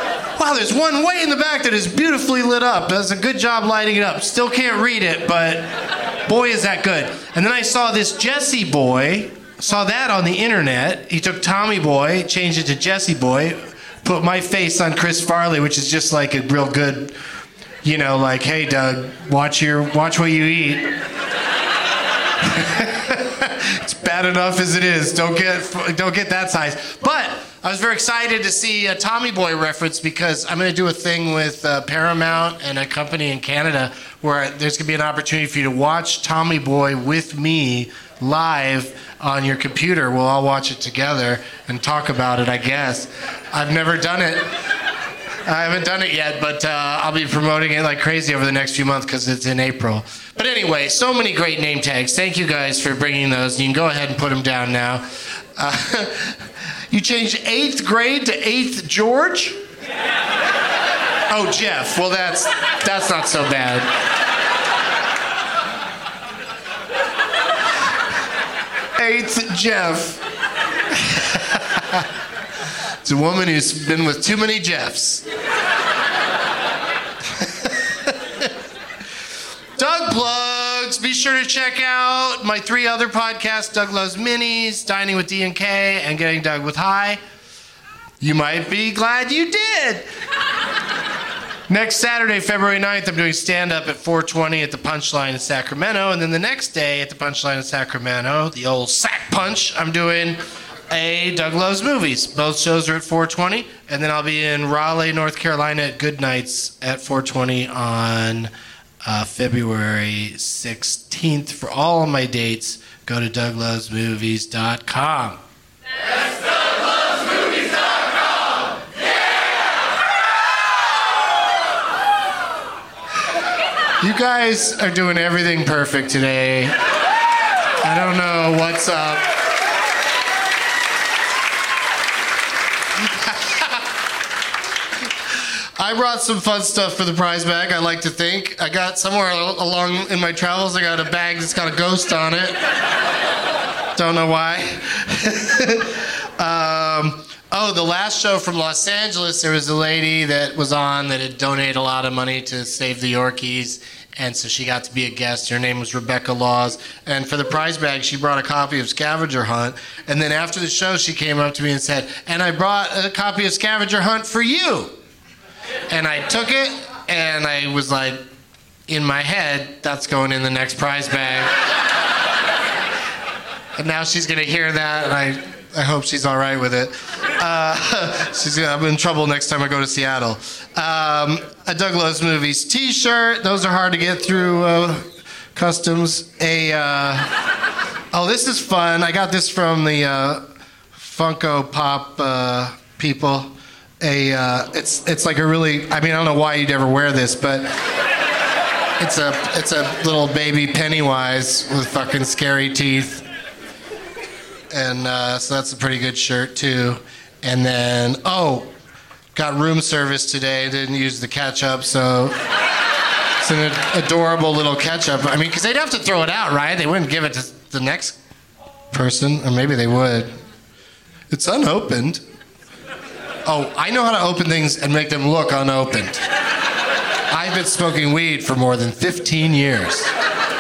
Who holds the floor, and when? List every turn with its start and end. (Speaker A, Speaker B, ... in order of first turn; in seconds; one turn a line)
Speaker A: 0.4-5.7
Speaker A: 6.3-17.2
Speaker A: 17.8-20.9
Speaker A: 22.4-44.5
Speaker A: 45.5-55.0
Speaker A: 55.6-56.4
Speaker A: 56.9-59.6
Speaker A: 61.3-63.9
Speaker A: 69.0-70.2
Speaker A: 71.0-72.0
Speaker A: 73.0-75.2
Speaker A: 77.4-78.5
Speaker A: 79.8-87.2
Speaker A: 88.2-90.1
Speaker A: 91.7-108.5
Speaker A: 109.0-115.4
Speaker A: 124.0-126.8
Speaker A: 127.8-129.3
Speaker A: 133.2-133.8
Speaker A: 135.8-142.6
Speaker A: 144.0-164.9
Speaker A: 165.9-168.2
Speaker A: 168.9-171.5
Speaker A: 173.8-187.3
Speaker A: 188.1-190.4
Speaker A: 191.0-197.7
Speaker A: 199.0-203.2
Speaker A: 204.7-208.7
Speaker A: 209.3-212.4
Speaker A: 213.4-218.2
Speaker A: 218.9-220.3
Speaker A: 221.3-222.2
Speaker A: 223.5-226.2
Speaker A: 227.3-230.1